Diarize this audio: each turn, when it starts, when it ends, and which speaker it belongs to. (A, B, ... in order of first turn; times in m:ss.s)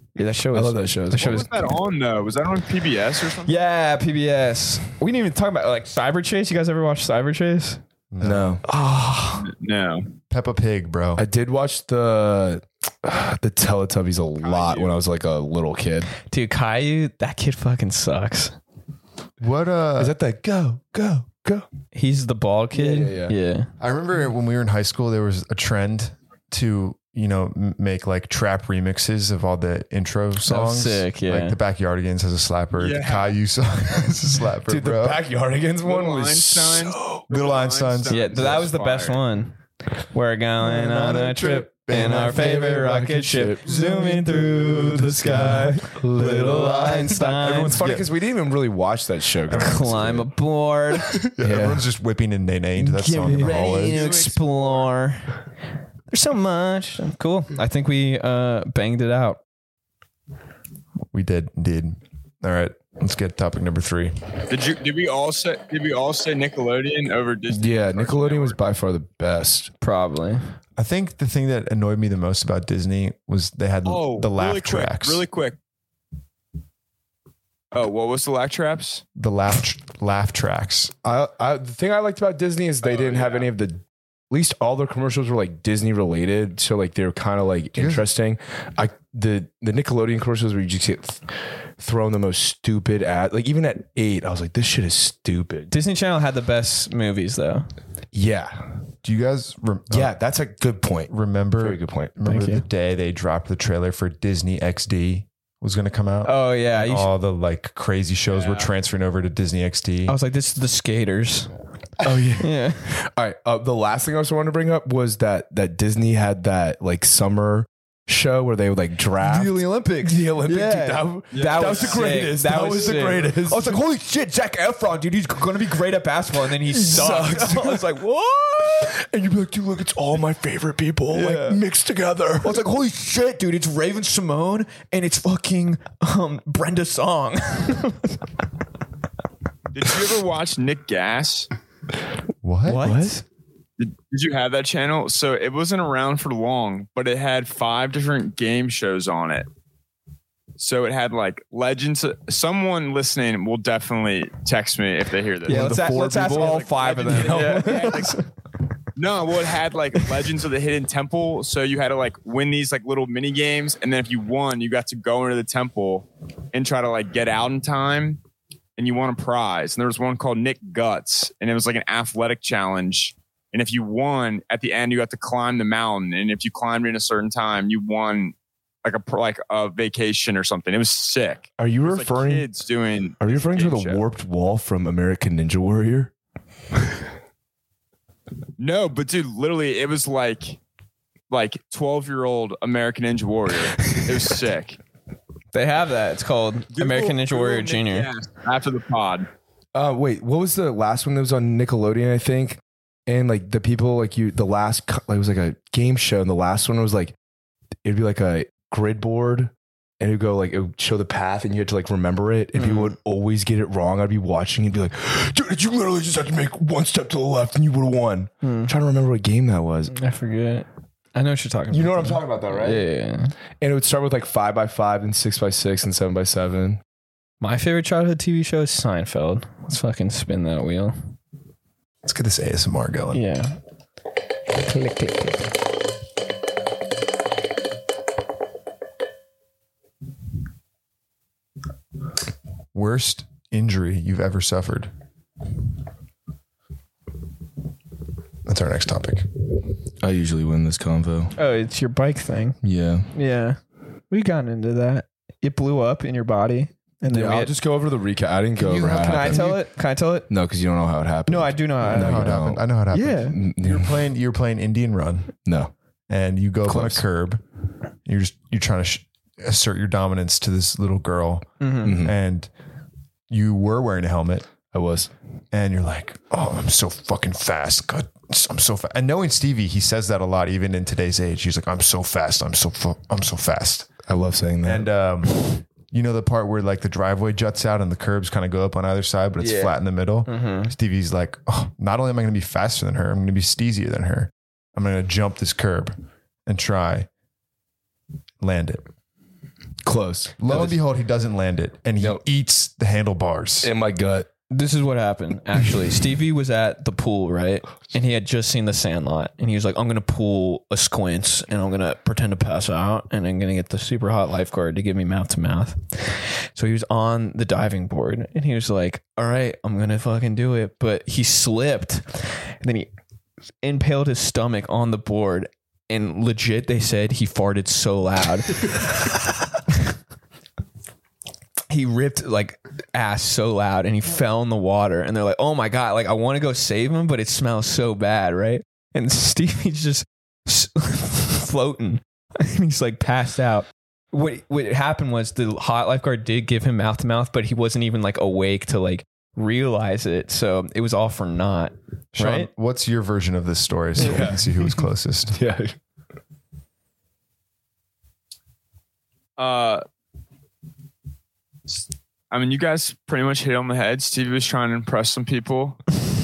0:00.2-0:01.5 A
0:00.5-0:01.5 B
0:01.1-0:03.6 C
0:03.5-0:07.8 A
0:08.1-0:08.6 D
0:08.2-0:08.6 B
0:08.6-0:09.5 A
0:09.4-0:10.1 C
0:10.3-0:11.2 D
0:11.2-0:16.1 B
0:14.4-0:15.0 C
0:16.3-0:18.6 A
0:19.4-0:20.2 D
0:20.0-0:21.7 B
0:21.9-0:23.7 A
0:22.7-0:23.4 B
0:23.8-0:35.2 D
0:30.4-0:31.6 A
0:32.8-0:33.4 C
0:34.7-0:37.2 B
0:35.8-0:39.2 C
0:37.3-0:38.5 D
0:38.1-0:39.6 A
0:40.1-0:48.1 A
0:40.6-0:42.7 D
0:42.0-0:50.3 B
0:49.5-0:49.9 D
0:49.5-0:51.1 A
0:51.1-0:54.1 D
0:51.4-0:51.8 B
0:52.8-0:55.4 A
0:53.4-0:54.8 C
0:56.1-0:59.4 A
1:01.1-1:04.1 D
1:04.5-1:08.6 C
1:07.5-1:09.7 B
1:09.8-1:10.5 A
1:10.8-1:15.2 D
1:13.8-1:15.6 C
1:17.7-1:19.0 C
1:19.2-1:20.9 D
1:21.0-1:35.7 B
1:22.8-1:23.5 C
1:27.7-1:28.1 D
1:35.7-1:37.7 A
1:38.1-1:38.6 B
1:39.0-1:40.1 D
1:39.9-1:42.1 B
1:41.1-1:50.2 D
1:42.2-1:42.6 A
1:46.2-1:47.1 A
1:48.3-1:48.7 C
1:50.1-1:51.5 A
1:52.0-2:03.8 B
1:52.4-1:52.9 A
1:59.2-2:08.9 A
2:01.3-2:02.2 C
2:06.6-2:07.9 B
2:08.8-2:12.6 B
2:11.1-2:11.6 A
2:12.4-2:18.2 A
2:19.7-2:21.5 C
2:22.4-2:22.8 D
2:22.7-2:23.2 A
2:22.8-2:23.2 B
2:23.8-2:29.5 C
2:30.6-2:38.2 C
2:35.5-2:38.1 B
2:35.5-2:38.2 A
2:39.0-2:48.2 C
2:48.8-3:04.0 C
3:01.6-3:02.4 B
3:03.2-3:06.1 B
3:08.6-3:10.6 C
3:11.3-3:14.8 C
3:15.5-3:18.1 A
3:16.7-3:19.3 C
3:19.7-3:27.2 B
3:27.8-3:40.0 B
3:32.6-3:33.0 A
3:38.4-3:38.7 A
3:39.9-3:43.3 A
3:41.7-3:42.8 B
3:43.6-3:46.8 B
3:47.4-3:51.0 A
3:52.0-3:53.2 D
3:53.1-3:53.6 A
3:54.6-3:55.4 A
4:02.7-4:04.9 D
4:08.5-4:09.3 D
4:10.0-4:11.4 B
4:11.4-4:12.6 A
4:12.6-4:13.1 B
4:13.1-4:13.6 A
4:14.1-4:17.5 A
4:17.1-4:19.6 B
4:18.6-4:19.6 D
4:19.0-4:20.3 A
4:20.3-4:22.6 B
4:21.3-4:22.4 A
4:21.8-4:25.3 D
4:22.9-4:23.4 A
4:23.2-4:24.0 B
4:25.5-4:25.7 B
4:26.1-4:27.4 D
4:26.7-4:27.0 B
4:28.1-4:32.5 D
4:31.6-4:32.0 A
4:31.8-4:32.2 B
4:33.3-4:34.5 D
4:34.7-4:35.1 B
4:35.5-4:43.9 D
4:44.1-4:44.9 B
4:44.6-4:56.0 D
4:49.4-4:49.8 A
4:50.3-4:50.7 A
4:56.5-4:57.1 D
4:58.4-4:58.8 D
4:59.8-5:00.8 B
5:00.4-5:03.7 D
5:03.6-5:04.3 B
5:04.5-5:22.9 A
5:23.6-5:29.1 A
5:31.7-5:52.5 A
5:52.1-5:55.4 D
5:54.0-5:54.7 B
5:55.3-5:55.8 B
5:59.4-5:59.8 C
6:01.7-6:05.9 C